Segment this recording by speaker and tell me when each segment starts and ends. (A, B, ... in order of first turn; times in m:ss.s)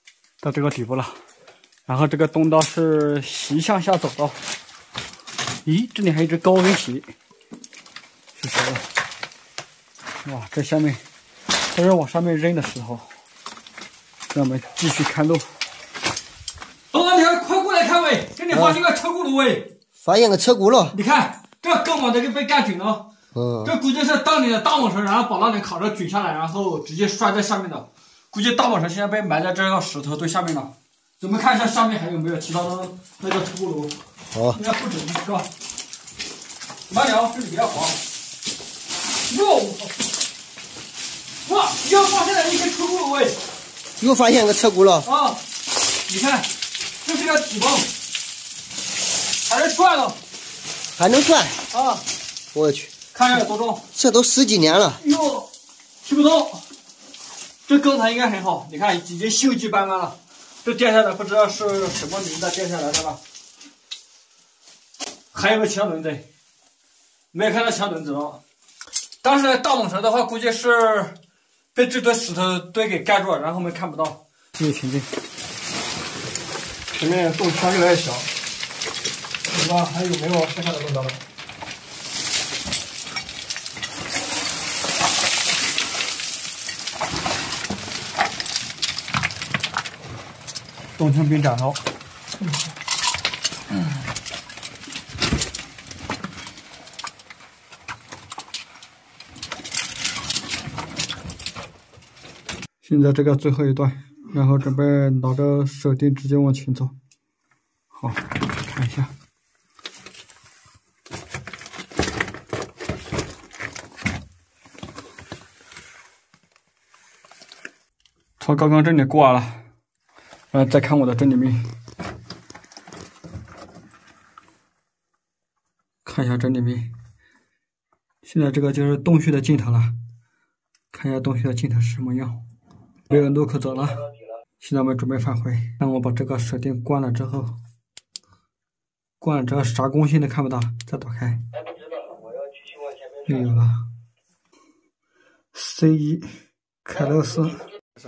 0:00.4-0:01.1 A
0:01.9-0:04.4 A
0:05.6-0:07.0 A
0:08.4-0:08.8 A
0:10.2-0:11.0 A
0:11.7-0:13.1 A
0:14.3-0:15.5 A
0:16.9-0:19.6 A
0:18.5-0:18.8 B
0:20.0-0:20.9 B
0:20.9-0:23.0 A
0:23.3-0:23.7 B
0:23.6-0:33.9 A
0:34.3-0:34.6 B
0:34.5-0:35.5 A
0:36.9-0:38.0 A
0:39.3-0:39.9 A
0:41.4-0:43.4 A
0:44.0-0:45.1 B
0:45.0-0:45.4 A
0:46.1-0:46.5 A
0:47.0-0:47.9 A
0:49.4-0:50.2 A
0:51.0-0:51.6 B
0:51.7-0:52.0 A
0:52.5-0:52.9 B
0:53.1-0:53.8 A
0:53.9-0:55.0 B
0:55.0-0:55.5 A
0:56.0-0:56.6 A
0:57.6-1:03.2 A
1:05.3-1:06.2 A
1:07.3-1:08.4 A
1:09.2-1:11.2 A
1:11.7-1:15.1 A
1:16.9-1:18.3 C
1:19.5-1:21.2 C
1:31.0-1:31.8 A
1:42.8-1:46.9 A
1:48.0-1:49.1 A
1:58.4-1:59.6 A
2:00.5-2:01.6 A
2:06.0-2:06.9 A
2:08.2-2:09.9 A
2:10.9-2:12.4 A
2:13.1-2:14.0 A
2:14.6-2:17.5 A
2:19.2-2:21.4 A
2:23.2-2:23.8 A
2:25.5-2:27.6 A